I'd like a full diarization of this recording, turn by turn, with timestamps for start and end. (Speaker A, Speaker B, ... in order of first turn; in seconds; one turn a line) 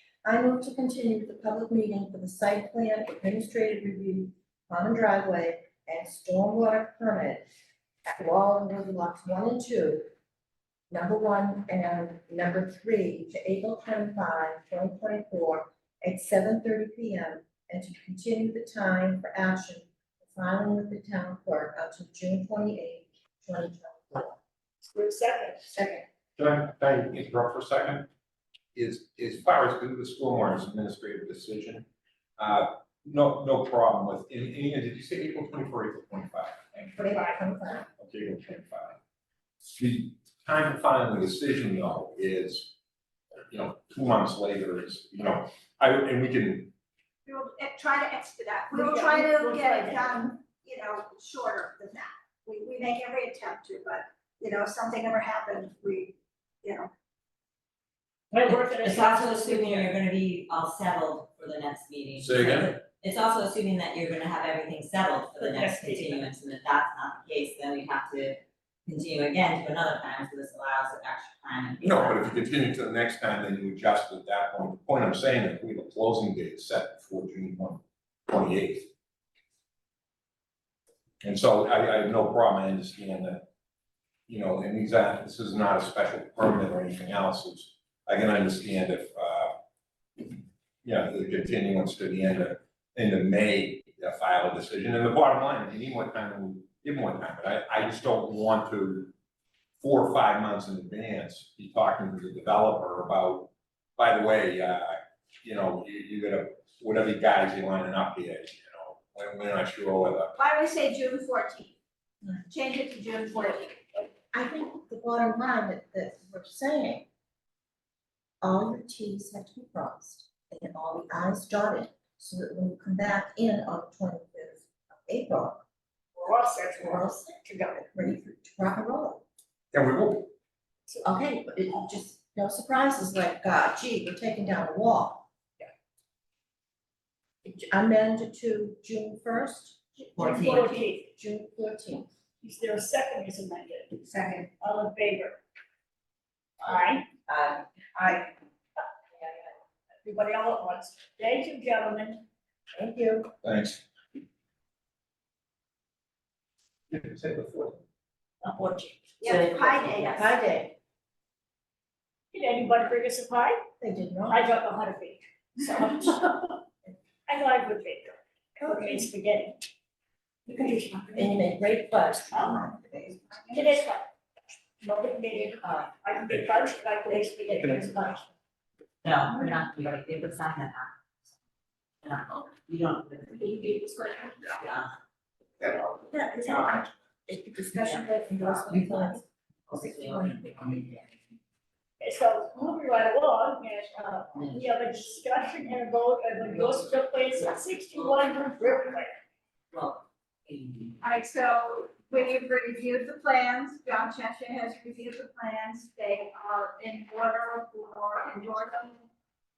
Speaker A: 0.2-7.5
Speaker A: 8.1-10.1
Speaker A: 10.9-24.4
Speaker B: 24.9-25.8
Speaker A: 25.8-26.0
Speaker C: 26.4-28.1
Speaker C: 28.8-37.0
Speaker A: 37.0-37.9
Speaker C: 38.0-39.0
Speaker C: 39.6-42.7
Speaker C: 43.5-46.7
Speaker D: 47.3-56.9
Speaker B: 48.7-50.2
Speaker B: 58.3-59.9
Speaker E: 58.5-72.4
Speaker C: 62.2-62.8
Speaker B: 65.4-66.2
Speaker C: 71.8-78.9
Speaker C: 81.2-83.5
Speaker C: 84.3-89.5
Speaker C: 90.2-99.1
Speaker C: 99.8-110.3
Speaker D: 110.4-111.8
Speaker D: 112.5-114.0
Speaker A: 114.3-117.1
Speaker A: 118.4-125.6
Speaker B: 126.2-127.9
Speaker A: 126.8-129.2
Speaker C: 129.7-130.3
Speaker A: 131.0-135.3
Speaker A: 137.4-142.1
Speaker B: 140.2-141.1
Speaker B: 142.4-144.0
Speaker A: 144.1-144.4
Speaker B: 144.6-145.4
Speaker B: 146.6-147.1
Speaker A: 147.3-148.3
Speaker B: 150.0-152.2
Speaker A: 152.7-153.3
Speaker C: 153.4-153.8
Speaker C: 156.9-157.8
Speaker E: 158.4-160.3
Speaker D: 159.2-160.1
Speaker A: 160.1-160.8
Speaker B: 162.3-163.7
Speaker A: 163.8-164.4
Speaker B: 164.3-166.6
Speaker B: 167.3-169.6
Speaker A: 168.6-169.0
Speaker B: 170.5-171.4
Speaker A: 171.1-173.6
Speaker B: 172.3-172.7
Speaker B: 173.5-174.1
Speaker B: 174.8-178.3
Speaker E: 179.0-180.9
Speaker E: 182.0-184.9
Speaker A: 186.1-189.2
Speaker E: 187.8-191.1
Speaker A: 189.9-190.3
Speaker B: 192.0-199.1
Speaker E: 199.7-201.0
Speaker D: 201.0-209.0